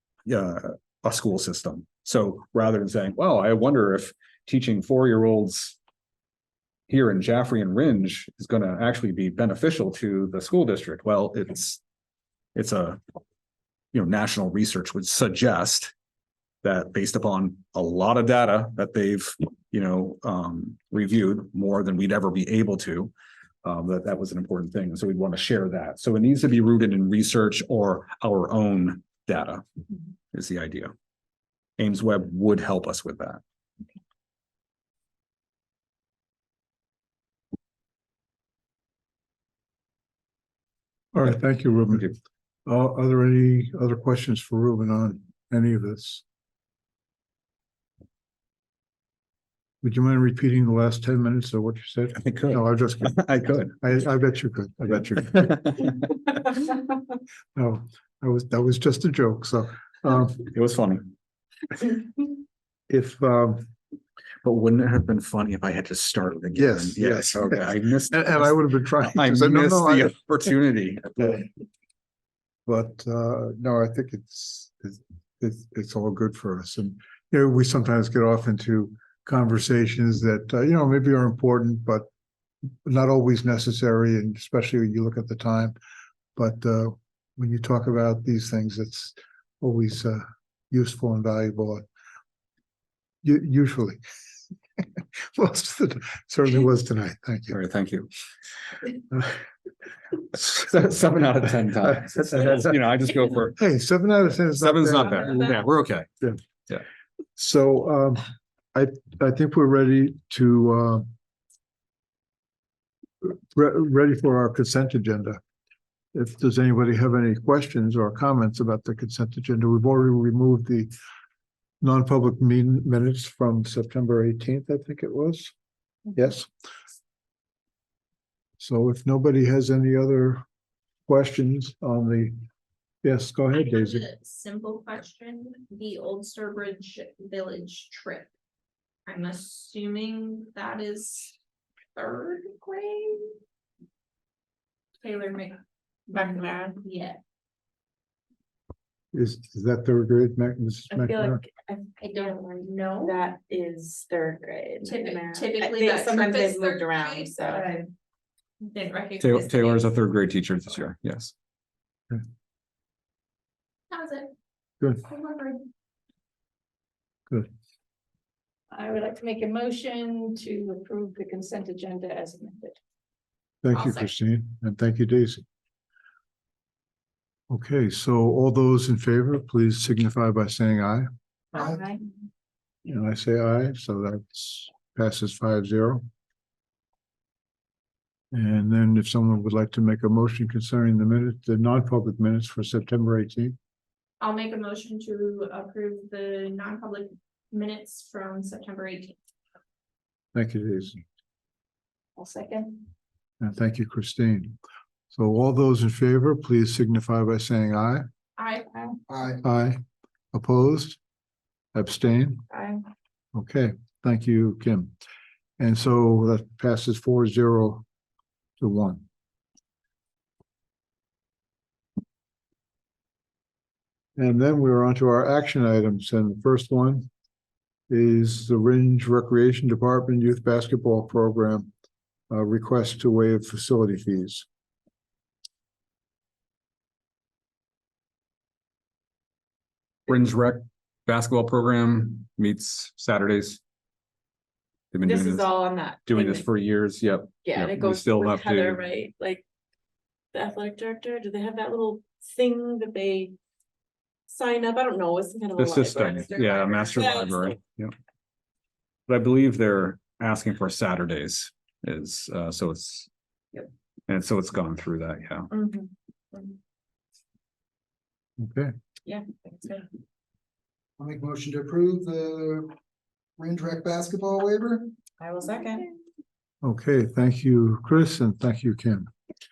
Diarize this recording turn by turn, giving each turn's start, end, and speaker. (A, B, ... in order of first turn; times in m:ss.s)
0:00.2-0:05.8 A
0:06.9-0:11.8 A
0:12.5-0:13.0 A
0:13.9-0:15.9 A
0:16.6-0:23.1 A
0:23.6-0:29.6 A
0:30.3-0:30.9 A
0:31.8-0:33.4 A
0:41.1-0:46.2 B
0:49.8-0:55.6 B
0:52.1-0:53.7 A
0:55.4-0:55.9 A
0:57.5-1:00.4 B
1:00.4-1:01.1 A
1:02.9-1:03.7 B
1:04.4-1:11.5 A
1:06.5-1:10.1 B
1:12.6-1:22.1 B
1:22.8-1:25.8 B
1:26.4-1:31.8 B
1:33.2-1:34.0 B
1:35.2-1:37.6 B
1:37.5-1:38.1 A
1:40.3-1:43.6 A
1:42.0-1:42.7 B
1:43.6-1:45.5 B
1:44.6-1:46.1 A
1:47.4-1:51.1 B
1:53.2-1:55.4 B
1:56.1-2:00.9 B
2:01.8-2:05.5 B
2:06.1-2:06.5 B
2:08.6-2:10.4 B
2:11.1-2:12.4 B
2:13.0-2:14.1 B
2:13.5-2:18.3 C
2:19.1-2:21.4 C
2:21.9-2:23.3 C
2:25.0-2:25.6 C
2:26.1-2:27.2 C
2:26.1-2:26.8 D
2:29.1-2:31.4 B
2:30.9-2:37.6 D
2:32.0-2:33.2 C
2:34.8-2:37.9 C
2:38.6-2:39.9 C
2:39.2-2:41.3 A
2:43.9-2:44.3 C
2:45.0-2:45.6 C
2:48.7-2:52.8 E
2:53.6-2:55.4 B
2:53.7-2:54.1 C
2:57.5-3:01.8 B
3:01.5-3:02.0 E
3:02.8-3:06.0 B
3:08.3-3:13.6 B
3:14.2-3:19.2 C
3:20.3-3:21.0 B
3:22.2-3:22.9 E
3:23.4-3:24.6 B
3:25.1-3:28.0 B
3:28.4-3:28.9 C
3:29.1-3:29.4 F
3:29.4-3:29.8 B
3:30.3-3:31.0 B
3:31.7-3:32.4 B
3:33.3-3:34.9 B
3:35.6-3:37.8 B
3:38.6-3:39.0 B
3:44.2-3:47.1 B
3:47.9-3:51.7 B
3:52.3-3:54.4 B
4:00.1-4:03.6 A
4:04.9-4:05.5 A
4:05.0-4:06.5 D
4:06.0-4:08.8 A
4:07.4-4:09.4 D
4:10.3-4:13.3 D
4:14.3-4:17.5 D
4:15.6-4:17.9 A
4:19.1-4:23.1 A
4:24.1-4:25.5 A
4:25.5-4:26.6 D
4:28.4-4:28.7 B
4:29.0-4:29.9 D
4:31.0-4:32.7 F
4:33.4-4:34.9 F
4:35.2-4:35.9 D
4:36.6-4:39.1 B